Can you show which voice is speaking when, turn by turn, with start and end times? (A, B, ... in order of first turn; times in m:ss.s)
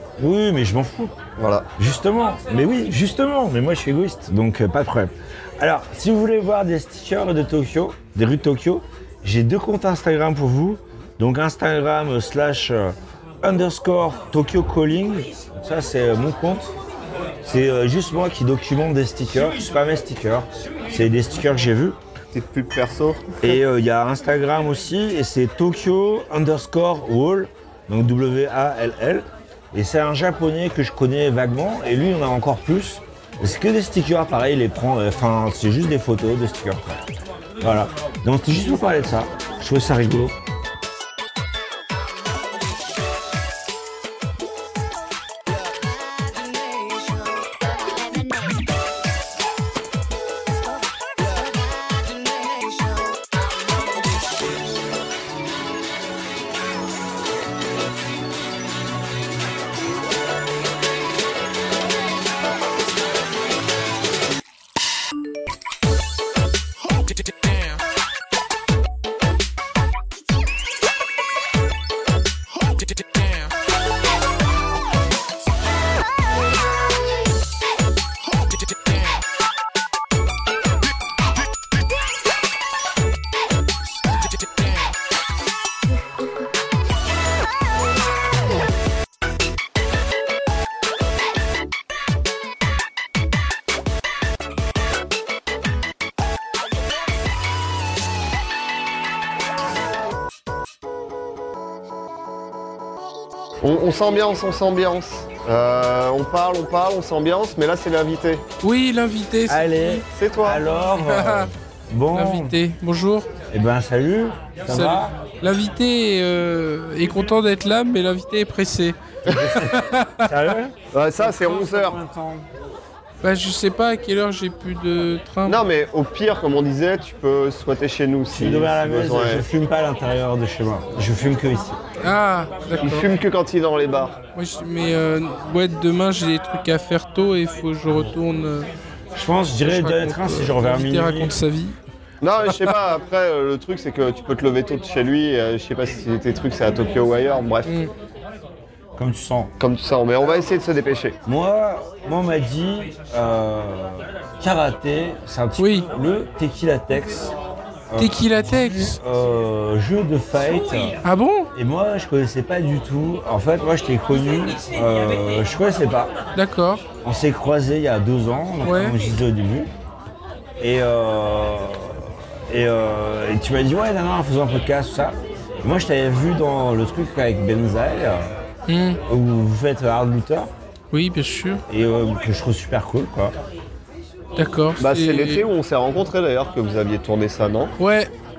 0:00.2-0:01.1 A
0:01.4-0:01.7 B
0:01.8-0:16.7 A
0:17.4-0:22.0 A
0:22.3-0:23.6 B
0:23.4-0:37.0 A
0:37.6-0:40.3 A
1:43.6-1:48.4 B
1:48.6-1:50.0 C
1:49.5-1:52.6 A
1:50.1-1:50.6 B
1:51.0-1:51.5 C
1:52.1-1:53.3 C
1:53.5-1:55.2 A
1:54.7-2:00.3 C
1:59.3-2:02.4 A
2:00.9-2:02.0 B
2:03.2-2:05.6 C
2:05.4-2:09.4 B
2:08.3-2:11.8 A
2:12.0-2:13.1 C
2:12.8-2:14.2 B
2:14.4-2:18.7 C
2:19.1-2:21.3 A
2:19.6-2:21.8 C
2:22.2-2:27.7 B
2:27.6-2:27.9 C
2:29.0-2:29.5 A
2:29.6-2:31.2 B
2:31.2-2:37.3 A
2:35.6-2:35.9 C
2:37.9-2:41.0 A
2:38.0-2:39.0 C
2:41.0-2:41.5 C
2:41.5-2:46.1 A
2:46.3-2:46.8 C
2:47.0-2:49.7 A
2:48.6-2:49.0 C
2:50.6-2:58.3 A
2:58.7-2:59.0 C
2:59.0-3:00.5 A
3:00.9-3:01.6 C
3:01.7-3:03.3 A
3:04.4-3:05.4 C
3:04.8-3:07.7 B
3:07.8-3:08.1 C